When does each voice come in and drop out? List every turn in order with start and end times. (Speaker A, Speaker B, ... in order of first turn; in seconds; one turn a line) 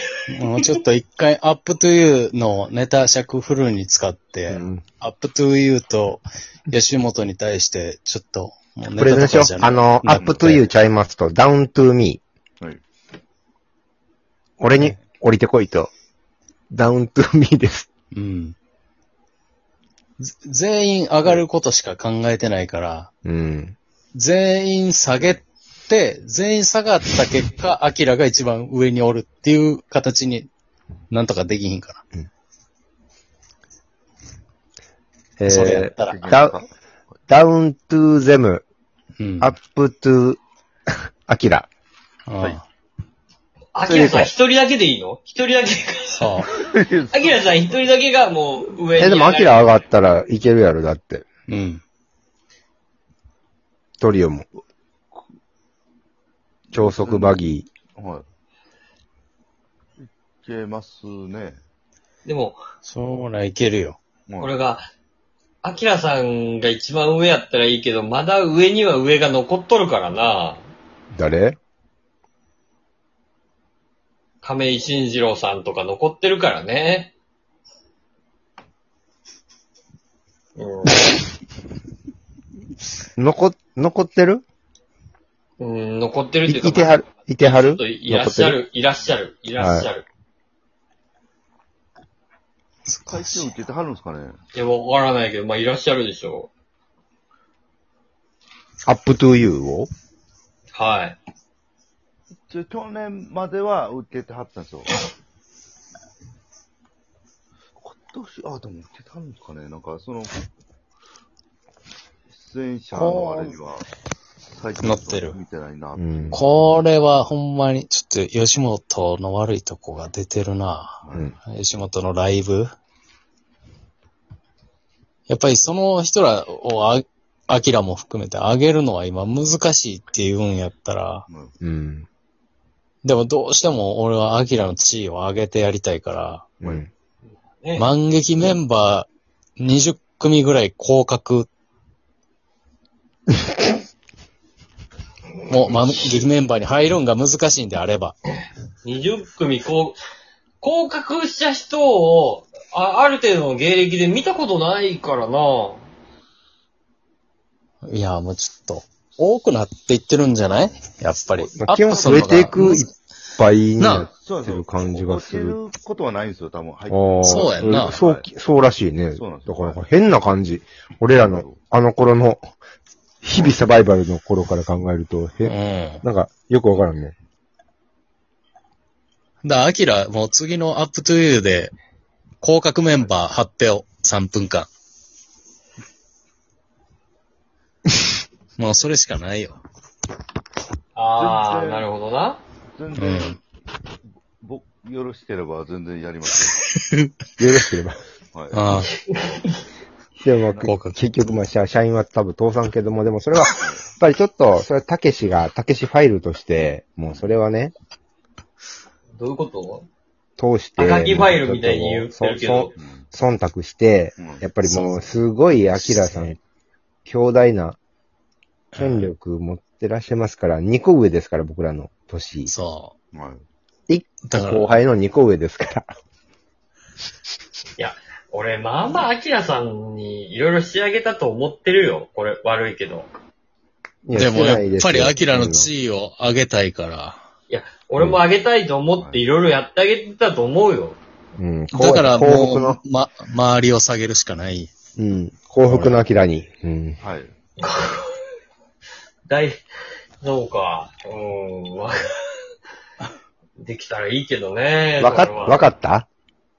Speaker A: 0.3-10.7
Speaker B: 4.5-4.8
Speaker B: 8.9-12.2
Speaker B: 14.6-15.9
Speaker B: 16.7-17.9
Speaker A: 18.1-18.6
Speaker A: 20.2-23.1
Speaker B: 23.2-23.8
Speaker A: 24.1-30.5
Speaker A: 31.1-32.0
Speaker B: 35.4-36.6
Speaker A: 35.5-36.2
Speaker C: 35.6-36.7
Speaker B: 37.3-38.6
Speaker A: 39.2-39.5
Speaker B: 39.4-40.4
Speaker B: 41.3-41.7
Speaker A: 42.3-42.6
Speaker D: 43.8-46.5
Speaker B: 43.9-44.3
Speaker A: 46.2-46.5
Speaker C: 46.5-47.9
Speaker D: 47.1-49.8
Speaker B: 49.0-51.3
Speaker A: 51.5-51.8
Speaker B: 54.0-54.5
Speaker C: 56.7-58.2
Speaker B: 56.7-57.7
Speaker C: 60.0-61.6
Speaker D: 62.2-62.6
Speaker A: 62.8-64.0
Speaker C: 64.3-64.6
Speaker D: 64.4-64.9
Speaker D: 65.6-70.7
Speaker B: 71.1-71.6
Speaker D: 74.4-77.1
Speaker D: 80.6-81.1
Speaker B: 83.2-84.4
Speaker D: 85.6-90.1
Speaker B: 86.5-88.6
Speaker B: 89.6-89.9
Speaker A: 92.9-93.5
Speaker C: 93.1-94.4
Speaker D: 94.5-96.5
Speaker B: 98.9-99.9
Speaker D: 100.7-101.2
Speaker C: 102.5-105.0
Speaker C: 107.8-110.4
Speaker C: 112.3-113.9
Speaker A: 112.9-113.6
Speaker C: 114.5-116.5
Speaker A: 114.8-115.4
Speaker B: 116.0-116.5
Speaker A: 116.3-122.7
Speaker C: 121.0-121.3
Speaker A: 125.3-131.3
Speaker C: 131.3-131.6
Speaker B: 131.6-132.1
Speaker A: 133.0-136.5
Speaker B: 136.6-136.9
Speaker D: 137.6-137.9
Speaker A: 137.8-141.5
Speaker A: 145.5-148.2
Speaker D: 145.7-146.2
Speaker D: 148.8-150.0
Speaker D: 150.6-155.9
Speaker A: 157.8-162.9
Speaker B: 161.4-165.6
Speaker A: 163.8-164.1
Speaker C: 164.1-168.3
Speaker B: 166.9-172.5
Speaker A: 167.2-168.0
Speaker C: 169.1-169.9
Speaker C: 171.2-171.6
Speaker B: 173.2-177.1
Speaker A: 175.4-176.0
Speaker A: 179.4-181.7
Speaker A: 182.4-184.7
Speaker A: 188.6-189.6
Speaker D: 191.0-192.4
Speaker C: 191.2-191.9
Speaker C: 192.7-193.4
Speaker A: 192.9-193.4
Speaker C: 194.4-196.6
Speaker B: 197.4-198.0
Speaker C: 198.3-198.6
Speaker A: 198.5-198.9
Speaker D: 199.1-199.4
Speaker B: 200.2-207.7
Speaker C: 200.5-200.8
Speaker A: 200.6-201.0
Speaker C: 203.6-203.9
Speaker C: 207.1-207.3
Speaker D: 209.2-209.9
Speaker B: 210.4-216.4
Speaker D: 210.8-212.7
Speaker C: 212.8-213.1
Speaker C: 214.2-214.4
Speaker A: 214.6-214.9
Speaker A: 215.9-216.3
Speaker B: 217.1-217.8
Speaker A: 218.7-219.1
Speaker B: 218.8-222.5
Speaker A: 222.5-222.9
Speaker C: 223.1-223.4
Speaker B: 223.9-225.9
Speaker A: 224.3-224.8
Speaker D: 227.8-233.1
Speaker B: 234.1-235.7
Speaker A: 234.1-237.2
Speaker D: 237.5-241.0
Speaker C: 238.9-239.2
Speaker B: 241.4-242.8
Speaker A: 241.7-244.7
Speaker B: 245.0-247.0
Speaker A: 245.7-245.9
Speaker C: 247.0-247.3
Speaker D: 247.6-248.2
Speaker D: 249.3-249.6
Speaker D: 250.2-252.0
Speaker D: 253.6-255.7
Speaker B: 255.0-256.1